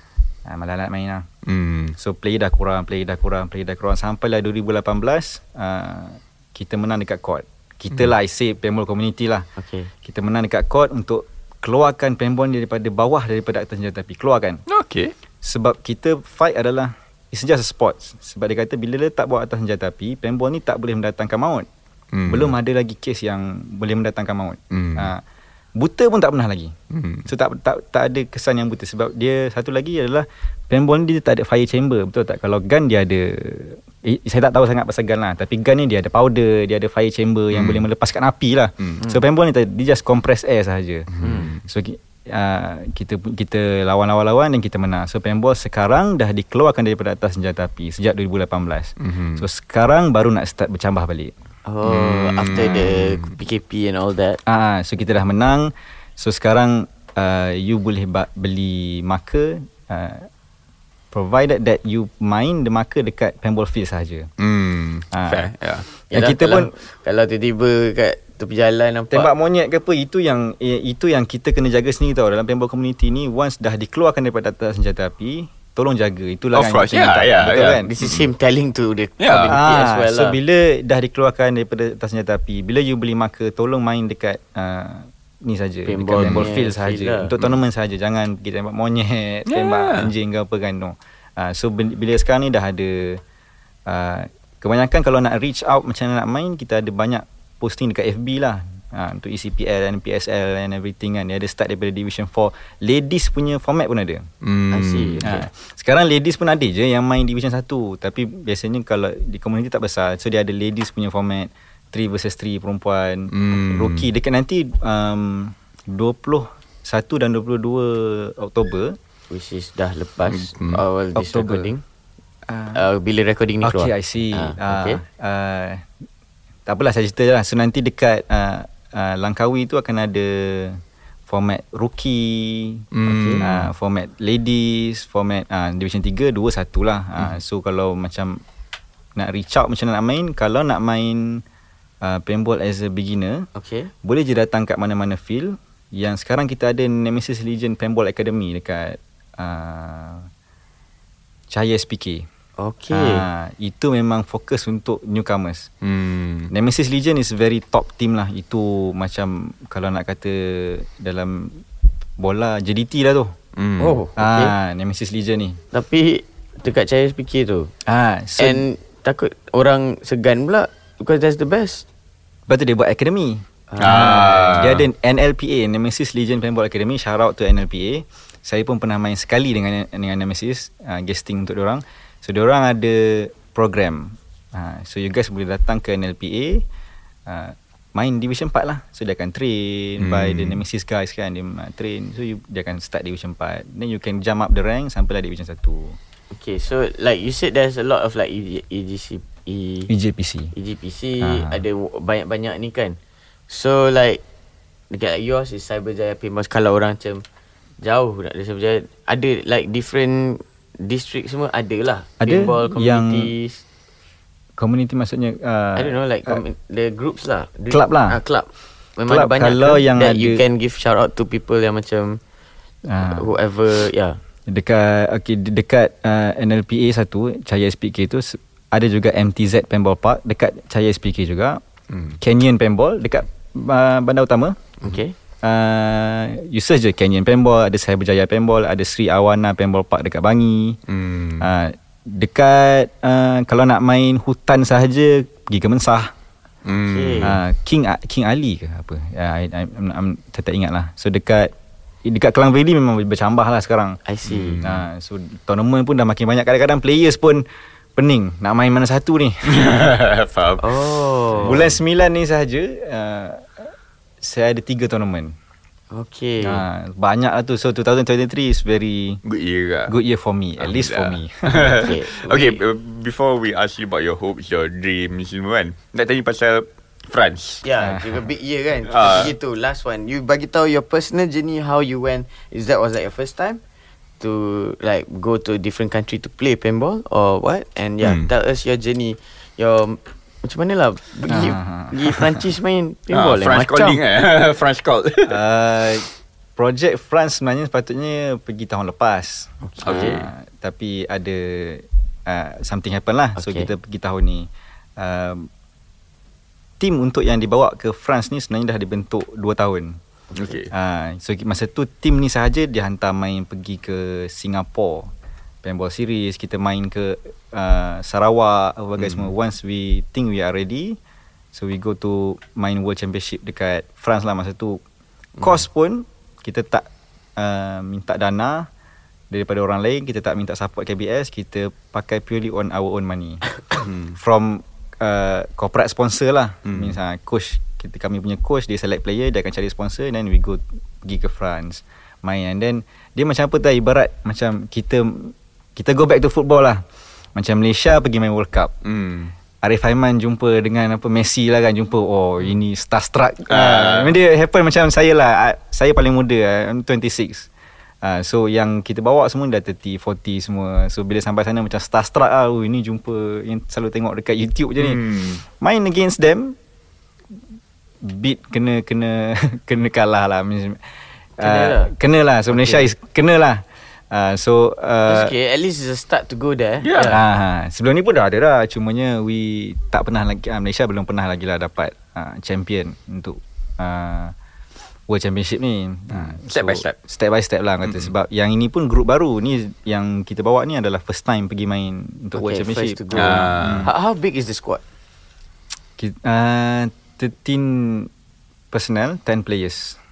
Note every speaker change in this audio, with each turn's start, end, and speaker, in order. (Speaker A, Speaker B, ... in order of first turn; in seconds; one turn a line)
Speaker A: 0.5-1.3
Speaker B: 1.4-1.9
Speaker A: 2.0-9.5
Speaker C: 9.6-9.9
Speaker A: 10.0-14.6
Speaker B: 14.7-15.1
Speaker A: 15.4-21.7
Speaker B: 22.1-22.5
Speaker A: 22.3-25.2
Speaker B: 24.7-25.1
Speaker A: 25.8-26.7
Speaker B: 26.9-27.3
Speaker A: 27.3-41.1
Speaker B: 37.5-37.9
Speaker B: 41.1-41.6
Speaker C: 41.2-41.5
Speaker A: 41.6-51.3
Speaker B: 49.0-49.5
Speaker C: 51.7-54.4
Speaker B: 51.9-53.4
Speaker A: 52.5-52.8
Speaker A: 54.5-60.3
Speaker A: 61.1-64.3
Speaker B: 64.4-65.9
Speaker A: 65.1-65.5
Speaker C: 66.1-69.3
Speaker A: 66.1-66.7
Speaker A: 69.1-77.9
Speaker B: 76.5-78.3
Speaker C: 77.4-80.4
Speaker B: 79.2-79.6
Speaker A: 79.4-93.2
Speaker C: 85.9-87.3
Speaker B: 86.2-86.5
Speaker B: 89.5-90.1
Speaker A: 93.9-104.3
Speaker B: 104.4-105.3
Speaker C: 104.7-105.5
Speaker A: 105.2-119.0
Speaker B: 113.3-114.1
Speaker C: 119.3-121.8
Speaker B: 120.3-120.8
Speaker A: 121.2-121.7
Speaker A: 122.5-122.8
Speaker C: 122.7-125.0
Speaker A: 123.6-125.9
Speaker A: 126.7-132.9
Speaker B: 132.9-133.7
Speaker C: 133.1-133.4
Speaker A: 133.4-138.4
Speaker A: 139.2-141.4
Speaker A: 142.0-143.4
Speaker C: 143.6-143.9
Speaker A: 144.0-150.3
Speaker A: 151.5-152.3
Speaker C: 152.6-153.2
Speaker A: 152.9-155.7
Speaker B: 155.8-156.5
Speaker A: 156.5-161.7
Speaker A: 162.2-163.3
Speaker B: 163.6-164.0
Speaker C: 163.8-164.5
Speaker A: 164.2-165.6
Speaker C: 165.7-167.7
Speaker A: 167.9-168.7
Speaker C: 168.4-171.9
Speaker A: 172.5-186.6
Speaker C: 173.7-174.3
Speaker B: 173.8-174.8
Speaker A: 187.3-196.0
Speaker B: 190.0-190.6
Speaker C: 196.3-199.9
Speaker A: 199.9-200.5
Speaker C: 200.5-203.0
Speaker A: 201.2-201.6
Speaker C: 203.5-204.2
Speaker C: 204.9-207.2
Speaker C: 207.8-213.6
Speaker A: 212.2-213.3
Speaker A: 214.6-216.4
Speaker C: 215.8-222.2
Speaker A: 217.7-218.2
Speaker A: 219.1-220.4
Speaker A: 222.9-223.3
Speaker C: 223.0-224.2
Speaker A: 224.5-231.6
Speaker B: 231.9-232.2
Speaker A: 232.2-234.7
Speaker C: 234.8-235.2
Speaker A: 235.4-240.8
Speaker B: 240.9-241.5
Speaker A: 241.4-246.1
Speaker B: 246.7-247.4
Speaker C: 246.9-247.4
Speaker A: 247.2-251.5
Speaker A: 252.0-254.0
Speaker C: 254.1-254.6
Speaker B: 254.2-254.8
Speaker A: 254.6-257.4
Speaker A: 258.0-259.9
Speaker B: 259.5-261.6
Speaker C: 260.6-261.7
Speaker A: 261.4-265.3
Speaker C: 265.9-266.6
Speaker A: 266.4-269.2
Speaker B: 269.2-269.9
Speaker A: 269.9-271.8
Speaker B: 270.6-277.6
Speaker C: 271.8-272.6
Speaker C: 277.6-283.6
Speaker A: 277.8-278.2
Speaker B: 278.9-279.3
Speaker C: 284.2-294.0
Speaker B: 288.0-288.3
Speaker A: 291.3-292.0
Speaker B: 293.1-295.4
Speaker A: 295.3-305.5
Speaker C: 299.6-300.2
Speaker B: 299.9-300.3
Speaker C: 303.4-303.7
Speaker A: 306.8-310.0
Speaker C: 310.3-310.6
Speaker B: 310.4-310.7
Speaker A: 310.7-315.1
Speaker A: 315.6-321.0
Speaker B: 319.0-319.3
Speaker A: 321.5-324.8
Speaker A: 325.4-328.7
Speaker A: 329.3-333.5
Speaker B: 333.8-334.2
Speaker A: 334.2-346.8
Speaker B: 336.7-337.0
Speaker A: 347.4-348.7
Speaker B: 348.8-349.3
Speaker A: 349.6-357.5
Speaker B: 353.5-354.2
Speaker A: 358.0-366.6
Speaker B: 364.8-365.4
Speaker A: 368.0-375.3
Speaker C: 371.4-371.9
Speaker C: 372.5-372.9
Speaker C: 375.1-377.2
Speaker B: 376.8-377.2
Speaker A: 377.1-384.3
Speaker A: 385.1-393.9
Speaker B: 386.1-387.0
Speaker B: 387.9-388.1
Speaker C: 392.4-394.8
Speaker B: 393.1-393.9
Speaker A: 396.0-398.1
Speaker A: 398.7-400.0